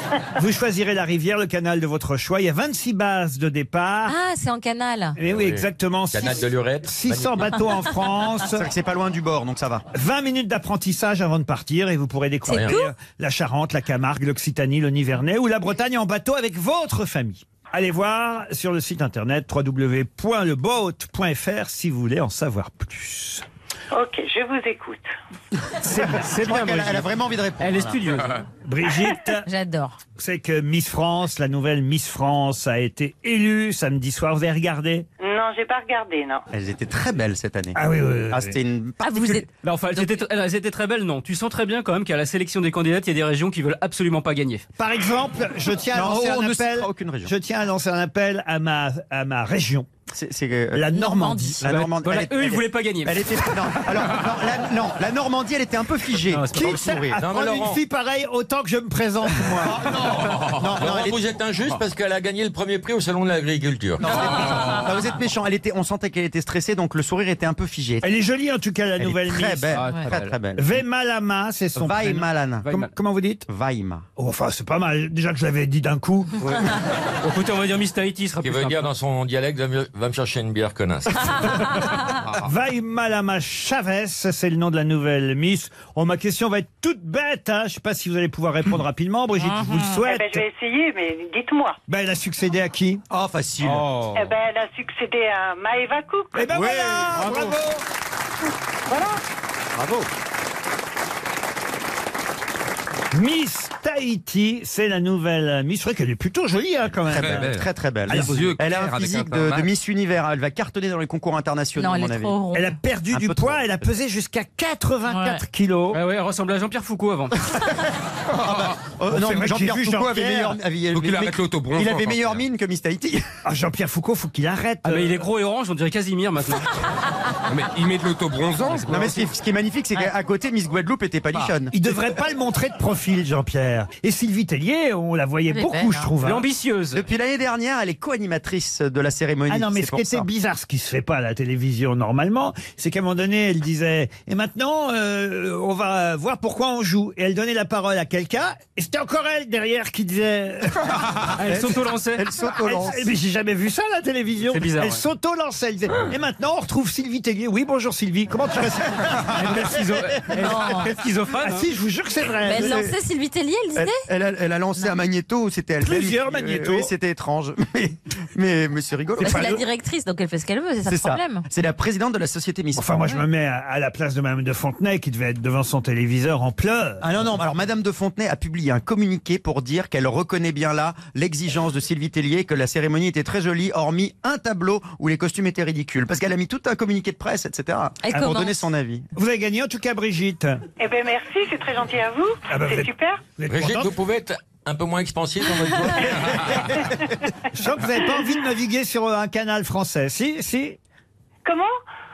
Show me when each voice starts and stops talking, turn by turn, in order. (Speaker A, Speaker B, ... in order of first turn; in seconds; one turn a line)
Speaker A: 0.3-4.2
Speaker B: 4.1-5.2
Speaker A: 5.2-8.7
Speaker C: 5.2-7.7
Speaker D: 8.5-9.8
Speaker A: 9.9-23.4
Speaker C: 12.5-12.8
Speaker B: 12.5-12.9
Speaker E: 23.9-25.0
Speaker A: 25.8-26.3
Speaker F: 26.1-28.4
Speaker D: 26.3-28.2
Speaker A: 28.6-29.5
Speaker B: 29.4-30.0
Speaker A: 30.2-35.1
Speaker E: 35.2-36.4
Speaker D: 36.5-37.8
Speaker A: 37.8-38.6
Speaker D: 38.3-39.4
Speaker B: 39.0-40.2
Speaker F: 39.6-44.6
Speaker A: 44.8-49.9
Speaker D: 45.9-47.3
Speaker D: 50.1-51.0
Speaker A: 50.7-51.6
Speaker B: 50.9-51.7
Speaker D: 51.6-57.2
Speaker F: 51.6-53.4
Speaker F: 56.3-56.8
Speaker A: 56.5-59.9
Speaker C: 57.2-57.8
Speaker D: 59.6-61.2
Speaker C: 60.2-64.2
Speaker D: 64.0-68.1
Speaker A: 68.0-69.8
Speaker D: 69.0-70.8
Speaker F: 69.7-70.3
Speaker A: 70.6-73.5
Speaker D: 71.8-72.7
Speaker F: 72.6-72.9
Speaker D: 73.5-74.0
Speaker A: 74.2-76.4
Speaker F: 76.4-78.9
Speaker C: 78.4-81.7
Speaker A: 82.3-90.4
Speaker B: 89.4-90.0
Speaker E: 90.0-91.8
Speaker A: 91.9-93.0
Speaker D: 93.1-93.9
Speaker E: 94.2-96.5
Speaker A: 96.3-97.8
Speaker F: 96.6-97.5
Speaker E: 98.9-99.2
Speaker D: 99.8-100.1
Speaker A: 103.1-107.5
Speaker G: 107.1-109.7
Speaker D: 107.1-112.4
Speaker A: 108.1-108.6
Speaker B: 111.8-112.8
Speaker A: 112.5-116.0
Speaker D: 113.1-113.8
Speaker B: 115.1-115.4
Speaker F: 115.9-117.5
Speaker D: 118.4-123.3
Speaker A: 119.1-120.6
Speaker G: 120.9-122.4
Speaker A: 123.5-125.3
Speaker F: 124.8-126.7
Speaker G: 127.5-129.1
Speaker F: 128.7-129.2
Speaker D: 128.9-131.8
Speaker A: 131.7-136.4
Speaker B: 135.5-136.1
Speaker F: 136.2-137.0
Speaker D: 136.9-140.3
Speaker A: 139.5-151.0
Speaker F: 151.3-152.3
Speaker D: 151.4-153.1
Speaker A: 152.6-162.8
Speaker F: 154.5-155.0
Speaker F: 159.3-161.7
Speaker B: 160.3-160.9
Speaker D: 162.4-163.0
Speaker B: 162.4-164.1
Speaker D: 163.7-169.6
Speaker A: 165.8-166.9
Speaker B: 169.2-171.4
Speaker A: 169.2-169.6
Speaker D: 170.9-173.1
Speaker A: 172.8-177.1
Speaker D: 177.0-189.1
Speaker B: 188.0-188.6
Speaker A: 189.2-190.6
Speaker E: 190.8-193.2
Speaker A: 192.5-193.9
Speaker C: 193.5-196.9
Speaker A: 197.5-200.8
Speaker E: 201.5-201.7